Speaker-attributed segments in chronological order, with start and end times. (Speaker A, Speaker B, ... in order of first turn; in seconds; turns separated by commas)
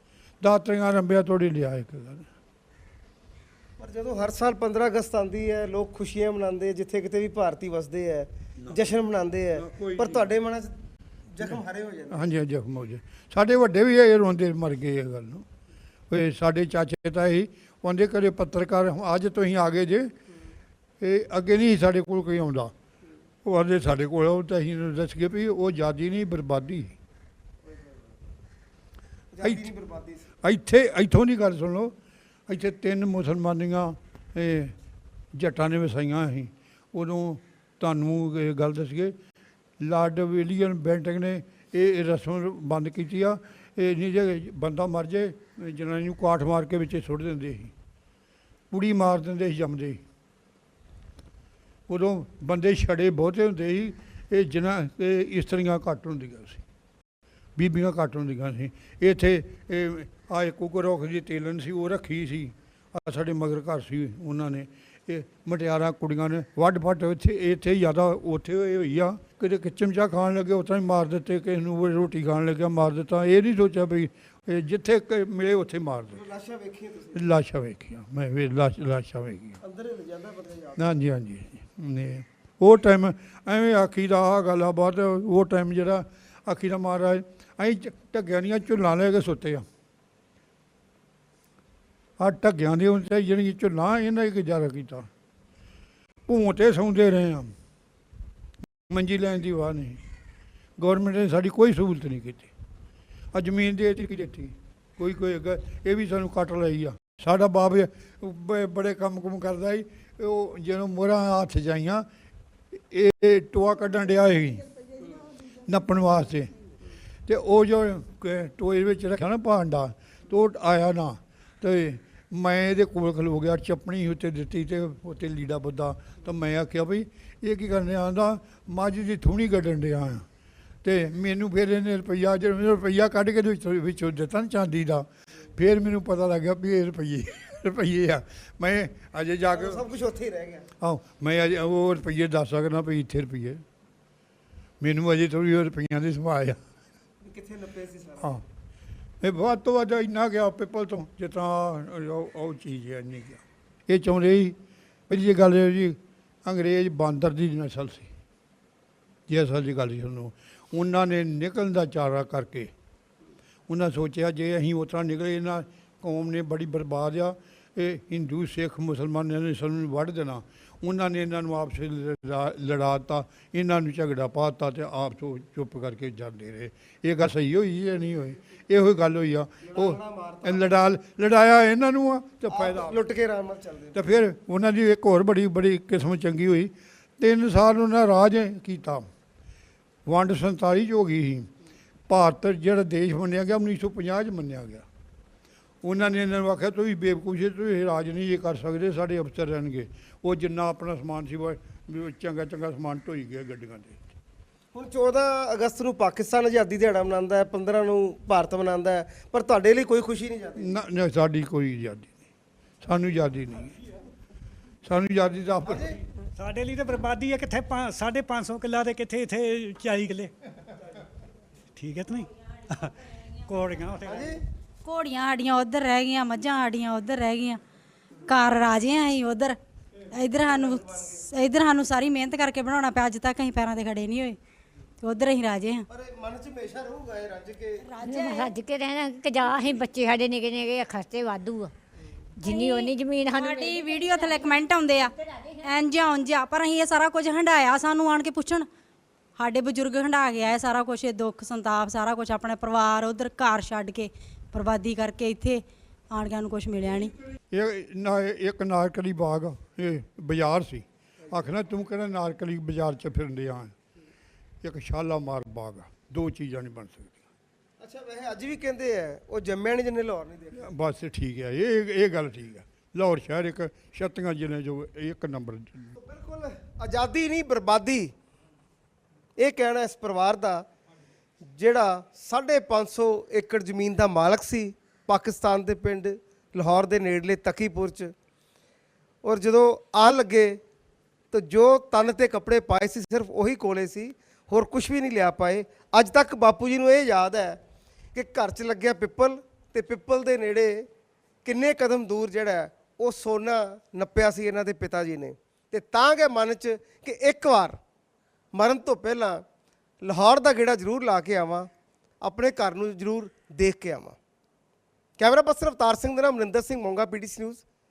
Speaker A: 0.4-2.3, Speaker B: 3.8-10.7, Speaker A: 9.5-10.3, Speaker B: 11.3-12.3, Speaker A: 12.1-15.4, Speaker A: 16.1-20.1, Speaker A: 21.0-22.7, Speaker A: 23.4-26.9, Speaker B: 27.6-28.0, Speaker B: 29.3-30.3, Speaker A: 29.4-29.7, Speaker A: 30.4-31.9, Speaker A: 32.5-34.7, Speaker A: 35.3-39.1, Speaker A: 39.8-47.7, Speaker A: 48.7-50.0, Speaker A: 51.9-56.6, Speaker A: 57.5-76.2, Speaker B: 76.1-77.2, Speaker A: 77.1-79.6, Speaker B: 79.6-80.8, Speaker A: 80.8-89.6, Speaker A: 92.2-95.1, Speaker A: 96.3-97.5, Speaker A: 98.9-100.0, Speaker A: 100.8-102.5, Speaker A: 103.3-112.0, Speaker A: 112.8-114.7, Speaker A: 115.6-116.5, Speaker A: 117.3-130.2, Speaker A: 130.8-139.8, Speaker B: 139.5-140.7, Speaker A: 140.8-143.6, Speaker A: 144.8-146.6, Speaker B: 147.2-148.4, Speaker A: 149.2-154.6, Speaker A: 155.1-158.1, Speaker A: 159.3-162.7, Speaker A: 163.7-183.0, Speaker B: 179.6-180.7, Speaker B: 182.5-184.0, Speaker A: 183.9-189.1, Speaker A: 190.1-191.5, Speaker A: 192.1-194.8, Speaker A: 195.8-204.0, Speaker B: 204.7-210.8, Speaker A: 210.6-212.1, Speaker A: 212.8-213.7, Speaker A: 214.8-215.9, Speaker B: 215.7-215.9, Speaker C: 216.4-220.3, Speaker C: 221.8-224.3, Speaker B: 224.0-224.4, Speaker D: 224.8-227.6, Speaker D: 228.3-229.6, Speaker D: 230.1-234.4, Speaker B: 230.4-231.2, Speaker D: 235.0-235.8, Speaker B: 235.9-237.9, Speaker D: 237.9-238.5, Speaker E: 238.0-241.7, Speaker E: 242.4-244.1, Speaker D: 242.4-248.7, Speaker D: 249.4-257.1, Speaker A: 257.5-263.7, Speaker A: 264.6-267.2, Speaker B: 267.8-270.7, Speaker A: 270.6-275.9, Speaker B: 276.0-278.1, Speaker B: 279.4-280.6, Speaker B: 281.5-288.1, Speaker B: 289.2-290.6, Speaker B: 291.3-297.6, Speaker B: 298.1-300.9, Speaker B: 301.4-307.8, Speaker B: 308.5-309.4, Speaker B: 310.0-311.7, Speaker B: 312.2-314.1, Speaker B: 315.2-317.6